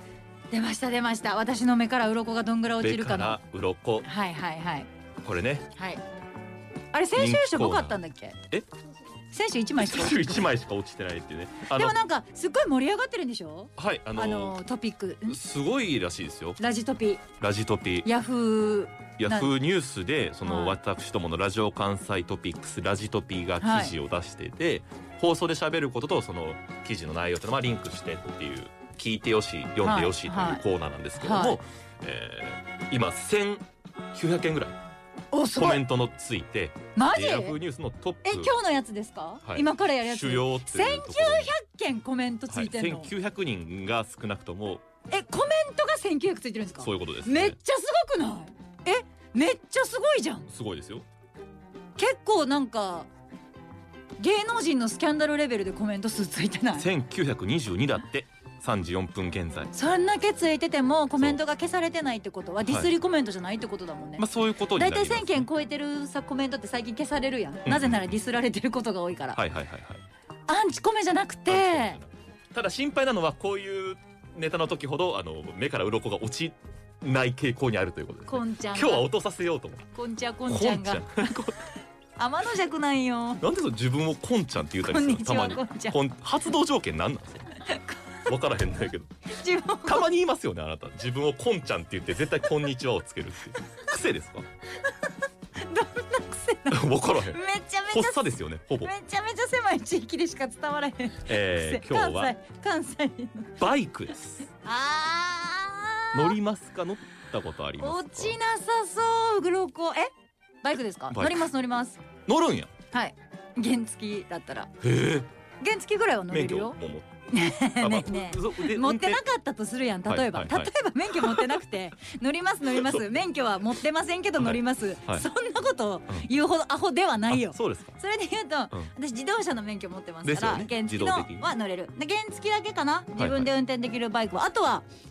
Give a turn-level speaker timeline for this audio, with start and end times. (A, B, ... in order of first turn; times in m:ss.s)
0:00.5-0:03.4 A
0:02.8-0:04.1 B
0:04.0-0:04.9 A
0:05.2-0:05.7 B
0:05.7-0:06.0 A
0:06.9-0:08.4 A
0:07.1-0:08.0 B
0:09.3-0:10.5 A
0:09.8-0:11.9 B
0:11.7-0:15.4 A
0:13.8-0:14.6 B
0:15.2-0:16.6 B
0:16.6-0:17.2 A
0:17.4-0:18.1 B
0:18.0-0:19.5 A
0:19.2-0:34.8 B
0:20.4-0:20.8 A
0:23.6-0:23.9 A
0:29.8-0:30.6 A
0:31.2-0:31.6 A
0:35.3-0:35.8 A
0:35.5-0:38.5 B
0:36.9-0:37.6 A
0:38.2-0:43.1 A
0:39.4-0:41.5 B
0:42.5-0:44.8 B
0:45.1-0:50.5 A
0:46.8-0:47.6 B
0:50.5-0:51.0 B
0:52.0-0:53.1 A
0:54.2-0:56.9 A
0:56.8-0:59.7 B
0:59.7-1:09.4 A
1:02.6-1:02.9 B
1:04.2-1:05.4 B
1:07.6-1:08.1 B
1:09.3-1:10.0 B
1:10.5-1:12.0 A
1:11.5-1:19.8 B
1:18.3-1:19.1 A
1:19.9-1:23.4 A
1:20.5-1:21.6 B
1:23.4-1:27.6 B
1:24.8-1:26.0 A
1:27.6-1:28.0 A
1:28.2-1:29.1 B
1:29.3-1:30.1 A
1:29.8-1:34.5 B
1:35.6-1:43.6 A
1:36.7-1:37.4 B
1:37.9-1:38.9 B
1:41.2-1:42.3 B
1:43.6-1:44.5 B
1:44.6-1:46.4 A
1:46.1-1:48.4 B
1:47.8-1:50.1 A
1:50.6-1:52.0 A
1:51.1-1:51.5 B
1:52.2-1:52.7 B
1:52.9-1:54.7 A
1:54.8-1:55.3 B
1:55.6-1:56.8 A
1:56.3-1:57.1 B
1:57.3-2:14.8 A
1:57.8-1:59.2 B
2:00.1-2:01.5 B
2:02.7-2:03.0 B
2:04.4-2:05.2 B
2:07.3-2:08.0 B
2:10.2-2:11.5 B
2:13.2-2:13.5 B